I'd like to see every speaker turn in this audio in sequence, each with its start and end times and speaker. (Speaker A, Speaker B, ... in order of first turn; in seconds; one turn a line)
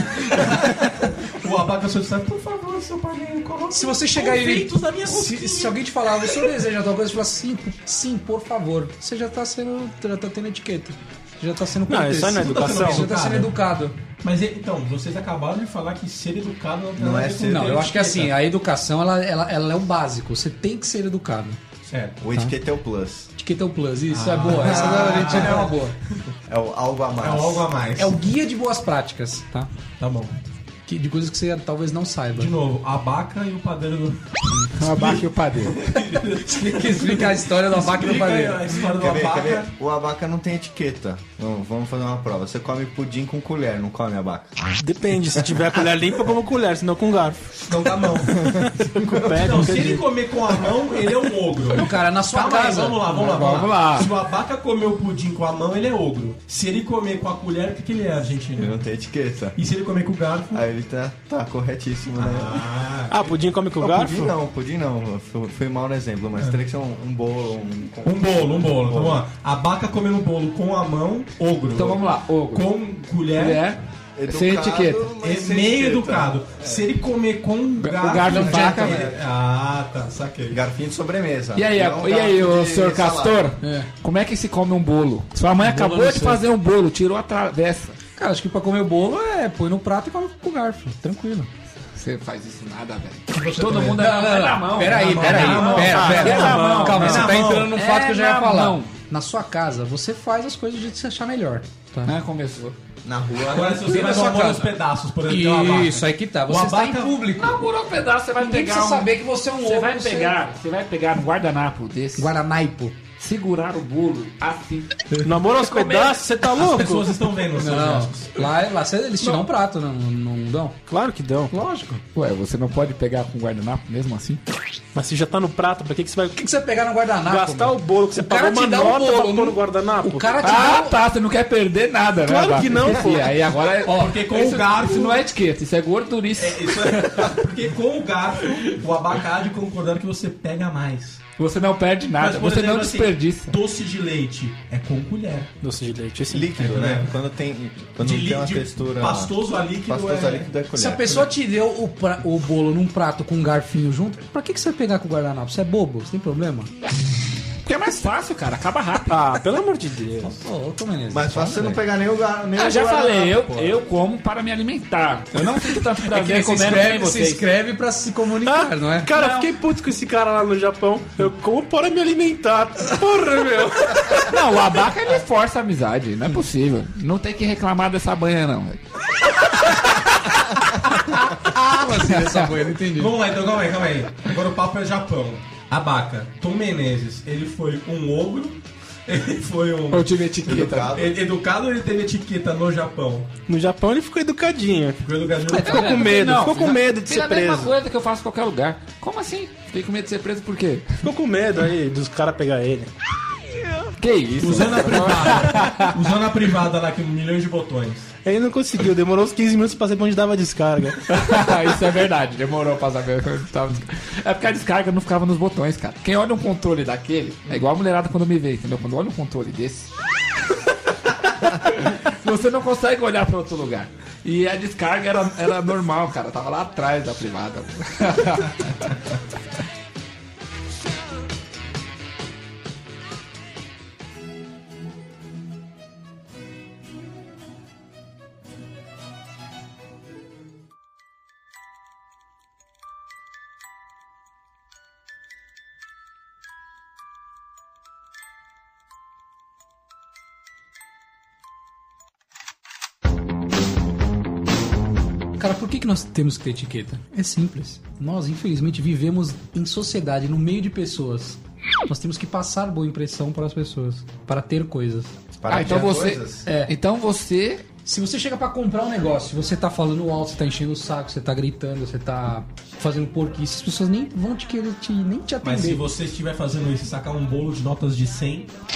Speaker A: 0.1-5.8
Speaker B: 3.7-13.9
Speaker C: 11.9-13.1
Speaker A: 12.4-13.6
Speaker A: 14.2-18.3
Speaker D: 16.9-18.1
Speaker B: 17.4-21.6
Speaker A: 21.8-22.2
Speaker D: 22.2-23.3
Speaker B: 23.4-25.9
Speaker A: 24.1-25.9
Speaker D: 24.6-25.7
Speaker D: 26.4-27.7
Speaker A: 27.2-28.2
Speaker B: 28.0-29.7
Speaker A: 30.0-30.3
Speaker B: 30.9-32.5
Speaker A: 32.3-39.7
Speaker E: 34.7-36.0
Speaker B: 36.4-38.7
Speaker D: 38.9-44.5
Speaker C: 44.8-47.6
Speaker A: 47.7-48.5
Speaker D: 48.3-49.6
Speaker C: 48.6-50.1
Speaker A: 49.4-58.8
Speaker B: 51.7-53.5
Speaker E: 53.1-54.1
Speaker D: 58.6-59.6
Speaker A: 59.5-60.6
Speaker D: 60.5-62.6
Speaker A: 62.2-63.3
Speaker C: 63.1-64.3
Speaker D: 63.8-69.2
Speaker A: 68.0-73.7
Speaker E: 71.7-72.7
Speaker E: 73.3-75.1
Speaker D: 74.2-76.9
Speaker A: 75.2-80.6
Speaker E: 77.8-79.0
Speaker B: 78.2-79.1
Speaker D: 80.5-83.5
Speaker E: 81.5-88.0
Speaker B: 83.6-83.9
Speaker B: 85.6-86.4
Speaker B: 88.2-91.5
Speaker E: 92.0-98.9
Speaker A: 93.3-94.0
Speaker B: 93.9-102.1
Speaker A: 94.8-97.7
Speaker C: 95.8-97.3
Speaker E: 102.0-102.8
Speaker D: 103.0-104.0
Speaker A: 103.5-107.2
Speaker B: 103.6-104.7
Speaker B: 105.3-107.7
Speaker E: 107.4-112.3
Speaker B: 108.4-110.4
Speaker B: 112.2-113.0
Speaker E: 113.2-116.2
Speaker C: 115.2-117.2
Speaker A: 116.6-118.3
Speaker B: 117.5-120.8
Speaker C: 120.9-121.5
Speaker B: 121.5-122.0
Speaker E: 122.1-124.4
Speaker C: 124.9-126.4
Speaker B: 126.3-131.0
Speaker C: 127.2-130.5
Speaker E: 130.4-137.4
Speaker C: 132.2-133.4
Speaker B: 133.8-134.1
Speaker A: 133.8-135.2
Speaker A: 136.3-141.2
Speaker E: 141.4-143.5
Speaker A: 142.2-145.5
Speaker C: 145.6-146.6
Speaker D: 146.3-151.3
Speaker A: 146.6-147.1
Speaker A: 148.0-150.5
Speaker B: 150.7-156.7
Speaker E: 157.6-159.4
Speaker C: 159.1-160.4
Speaker B: 160.2-161.8
Speaker D: 161.1-163.8
Speaker E: 162.6-167.4
Speaker B: 166.1-169.2
Speaker C: 168.4-174.3
Speaker E: 169.1-169.4
Speaker E: 174.1-178.8
Speaker E: 179.6-180.0
Speaker B: 181.0-183.1
Speaker E: 182.2-182.5
Speaker A: 182.9-190.1
Speaker E: 189.9-190.9
Speaker D: 190.4-191.2
Speaker A: 190.9-193.3
Speaker C: 193.5-197.7
Speaker A: 195.0-196.1
Speaker B: 195.5-196.1
Speaker E: 195.5-201.0
Speaker C: 201.0-202.9
Speaker E: 204.0-205.9
Speaker A: 204.4-208.1
Speaker C: 208.2-211.0
Speaker E: 211.1-219.9
Speaker E: 221.3-228.9
Speaker B: 255.4-265.1
Speaker D: 265.4-266.4
Speaker E: 265.5-267.6
Speaker B: 266.4-266.7
Speaker B: 267.8-275.9
Speaker A: 275.4-278.5